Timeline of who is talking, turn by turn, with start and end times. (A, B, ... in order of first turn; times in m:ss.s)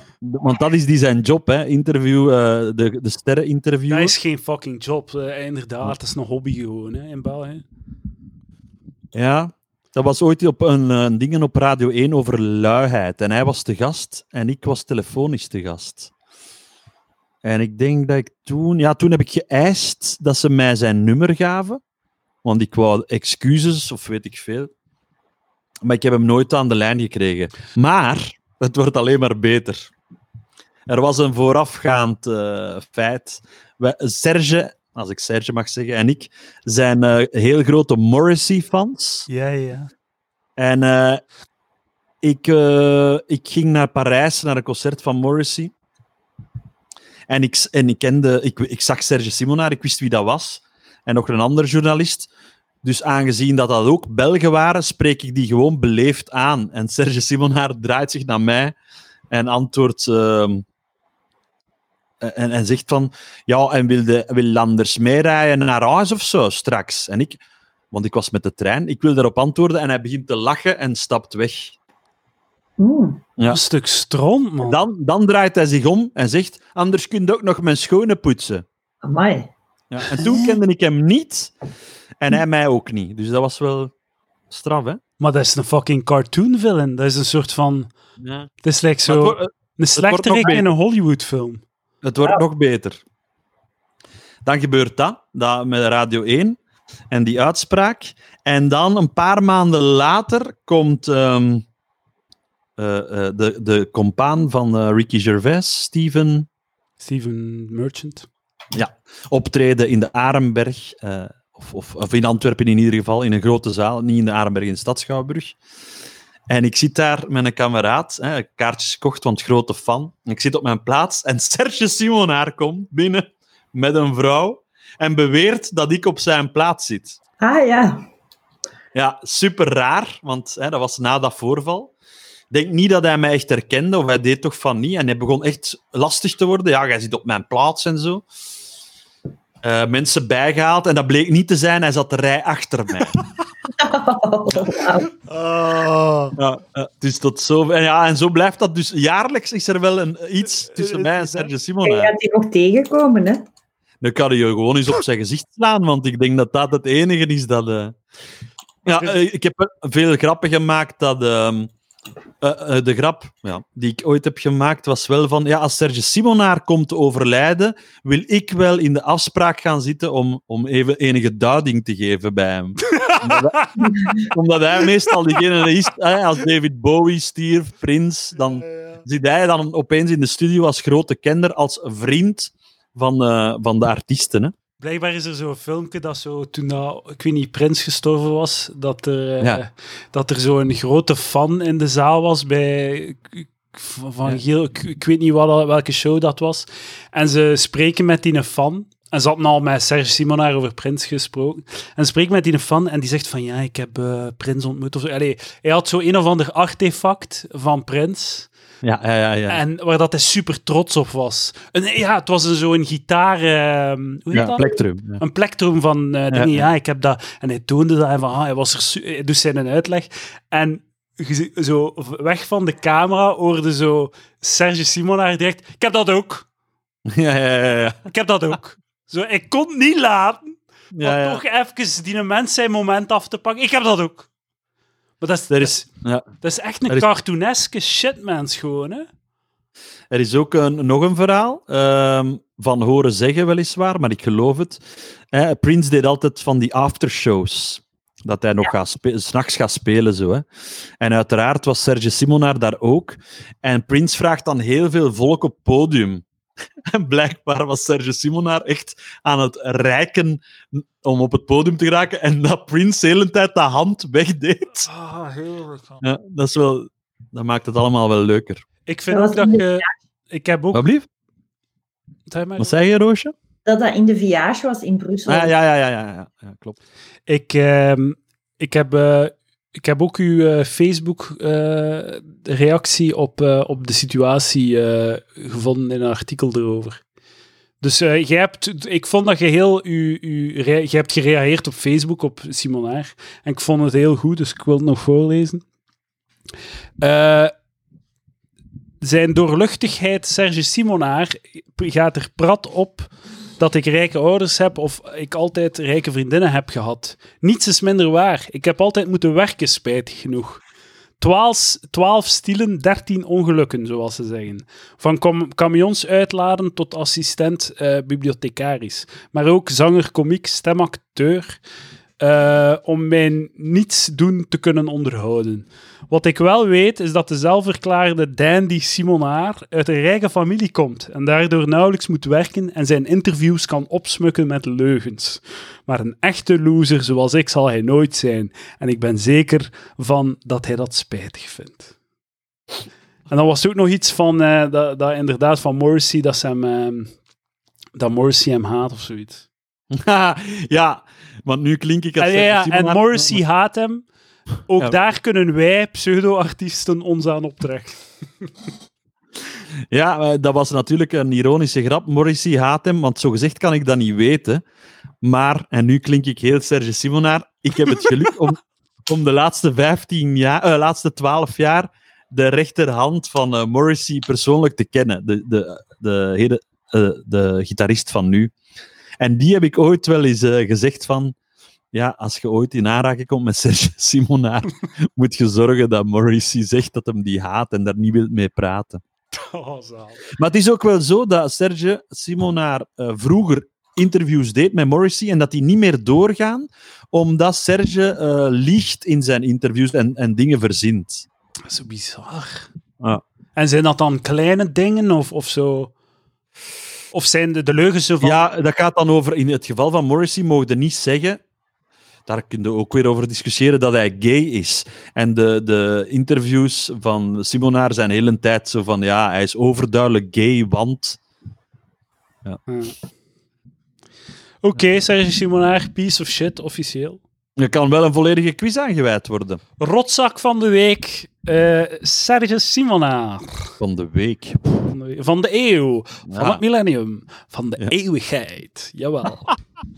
0:00.2-0:04.2 A
0:03.9-0:07.6 B
0:09.1-0:16.1 A
0:17.4-0:21.8 A
0:22.4-0:24.7 A
0:25.8-0:29.9 A
0:30.9-0:39.3 A
0:39.3-0:39.9 B
0:40.6-0:41.2 A
0:42.2-0:45.7 A
0:47.3-0:52.3 A
0:52.8-0:58.8 A
0:59.3-1:00.6 A
1:02.2-1:07.4 A
1:07.9-1:11.8 A
1:12.8-1:13.2 C
1:13.5-1:14.8 B
1:14.6-1:18.6 A
1:19.0-1:19.5 C
1:19.9-1:21.5 A
1:20.2-1:20.6 B
1:22.2-1:23.9 A
1:24.5-1:25.0 A
1:25.2-1:27.9 B
1:28.2-1:28.5 A
1:28.6-1:31.6 B
1:29.1-1:30.7 A
1:32.0-1:33.0 A
1:34.4-1:36.6 A
1:37.1-1:41.6 A
1:42.8-1:46.5 A
1:47.0-1:48.3 B
1:48.7-1:55.6 A
1:56.5-2:07.2 A
2:07.4-2:08.0 C
2:08.9-2:11.9 A
2:12.5-2:18.2 A
2:19.6-2:23.1 A
2:23.7-2:25.1 C
2:25.2-2:26.4 B
2:26.4-2:32.1 A
2:30.6-2:31.5 B
2:31.8-2:33.4 C
2:34.0-2:38.0 A
2:38.8-2:41.7 A
2:42.4-2:53.6 A
2:52.9-2:53.7 B
2:53.8-2:54.3 C
2:54.3-3:04.5 A
2:58.6-2:59.0 B
3:04.8-3:28.5 B
3:28.8-3:29.6 A
3:29.5-3:46.4 B
3:34.3-3:35.2 A
3:36.3-3:36.6 A
3:47.1-3:48.1 A
3:48.1-3:54.3 B
3:50.9-3:51.4 A
3:55.2-3:55.9 B
3:55.5-3:56.3 A
3:56.4-3:59.1 B
4:00.1-4:10.4 A
4:11.0-4:16.2 A
4:16.9-4:24.9 A
4:24.8-4:26.0 B
4:26.0-4:28.6 A
4:28.9-4:30.8 B
4:29.1-4:29.9 C
4:30.7-4:31.1 A
4:32.3-4:32.8 B
4:32.6-4:33.3 A
4:33.6-4:35.5 C
4:35.3-4:36.8 A
4:37.3-4:47.0 B
4:47.8-4:55.6 B
4:57.0-4:57.5 B
4:59.0-5:10.6 B
5:11.2-5:21.6 B
5:22.2-5:41.9 B
5:43.3-5:47.1 B
5:48.0-5:49.4 B
5:49.9-5:53.4 A
5:52.2-5:54.0 B
5:54.7-5:58.0 B
5:59.9-6:04.6 A
6:05.2-6:18.5 A
6:19.2-6:21.4 A
6:21.9-6:29.0 A
6:29.3-6:30.3 B
6:30.3-6:41.3 A
6:41.7-6:42.7 B
6:43.6-6:45.9 B
6:47.1-6:48.4 B
6:48.2-6:51.4 A
6:52.3-7:01.2 A
7:02.7-7:02.9 B
7:04.6-7:07.2 B
7:07.6-7:09.6 A
7:09.8-7:13.7 B
7:13.8-7:14.8 A
7:14.9-7:19.6 B
7:16.3-7:16.6 A